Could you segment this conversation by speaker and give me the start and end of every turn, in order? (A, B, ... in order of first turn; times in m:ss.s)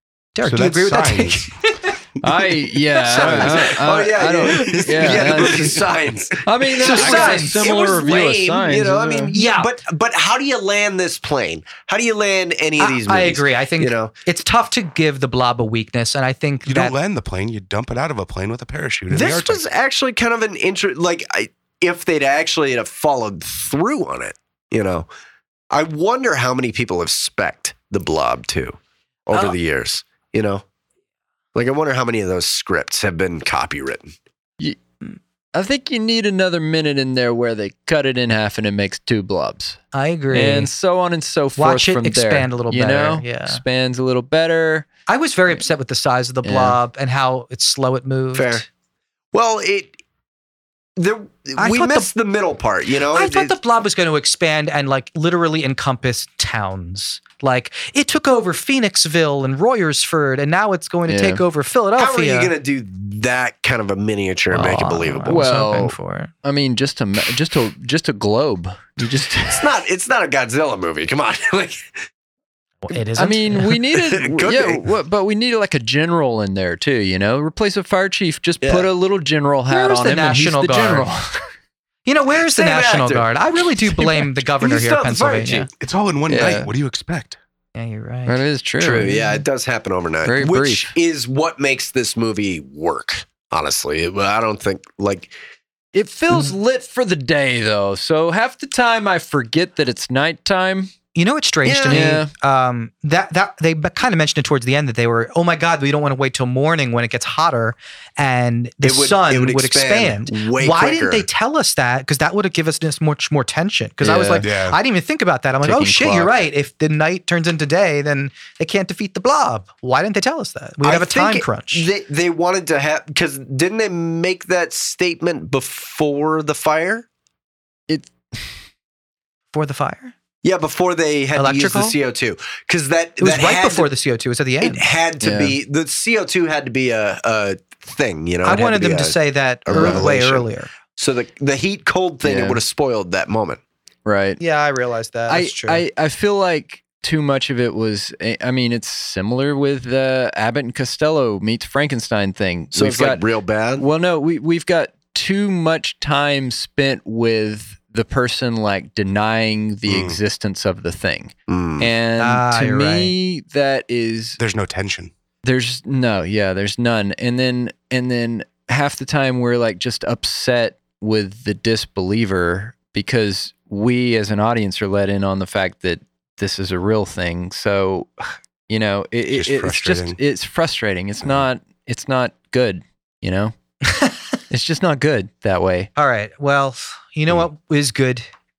0:00.4-0:02.0 A
0:00.4-0:01.5 B
0:02.2-0:05.9 C
0:03.0-0:14.1 D
0:05.0-0:06.2 B
0:06.4-0:09.4 C
0:06.7-0:07.7 A
0:06.9-0:07.4 B
0:09.3-0:09.7 A
0:12.8-0:16.9 A
0:16.6-0:19.6 B
0:19.1-0:25.1 D
0:25.7-0:30.6 D
0:31.6-0:34.1 D
0:35.5-0:39.8 C
0:39.9-0:40.7 A
0:40.3-0:44.9 C
0:41.6-0:43.6 A
0:45.1-0:48.7 A
0:46.4-0:46.8 C
0:48.3-0:48.6 D
0:49.3-0:50.0 D
0:51.0-0:53.6 D
0:51.6-0:52.1 A
0:53.1-1:02.5 A
1:01.1-1:01.4 C
1:02.0-1:05.5 D
1:04.5-1:06.3 A
1:05.3-1:09.7 C
1:09.5-1:11.9 D
1:12.8-1:13.7 A
1:13.2-1:21.4 C
1:13.9-1:14.9 D
1:18.6-1:18.9 D
1:19.7-1:21.1 A
1:22.1-1:25.7 A
1:22.4-1:23.3 D
1:23.8-1:25.7 D
1:25.8-1:27.4 B
1:26.3-1:26.7 C
1:27.8-1:28.4 A
1:28.3-1:29.4 C
1:28.8-1:35.3 D
1:30.2-1:30.9 C
1:35.9-1:40.9 C
1:41.2-2:01.9 A
1:41.6-1:42.1 D
1:41.9-1:42.3 C
1:48.8-1:51.3 D
1:54.0-1:54.5 C
1:54.4-1:54.8 B
1:55.6-1:56.3 C
2:00.8-2:07.1 D
2:07.9-2:08.5 C
2:09.5-2:10.1 A
2:10.4-2:13.9 D
2:11.4-2:12.0 A
2:13.2-2:14.8 A
2:14.6-2:23.6 D
2:15.2-2:15.6 C
2:18.4-2:20.7 A
2:19.7-2:20.1 C
2:22.2-2:22.6 C
2:24.1-2:24.4 C
2:24.4-2:25.8 A
2:25.3-2:33.2 C
2:32.7-2:33.8 D
2:33.8-2:44.4 C
2:39.9-2:40.2 B
2:41.5-2:41.9 D
2:42.2-2:43.2 A
2:44.4-2:45.1 B
2:45.4-2:58.1 C
2:58.7-3:03.5 C
2:59.3-3:00.2 B
3:04.5-3:05.9 C
3:06.0-3:08.3 A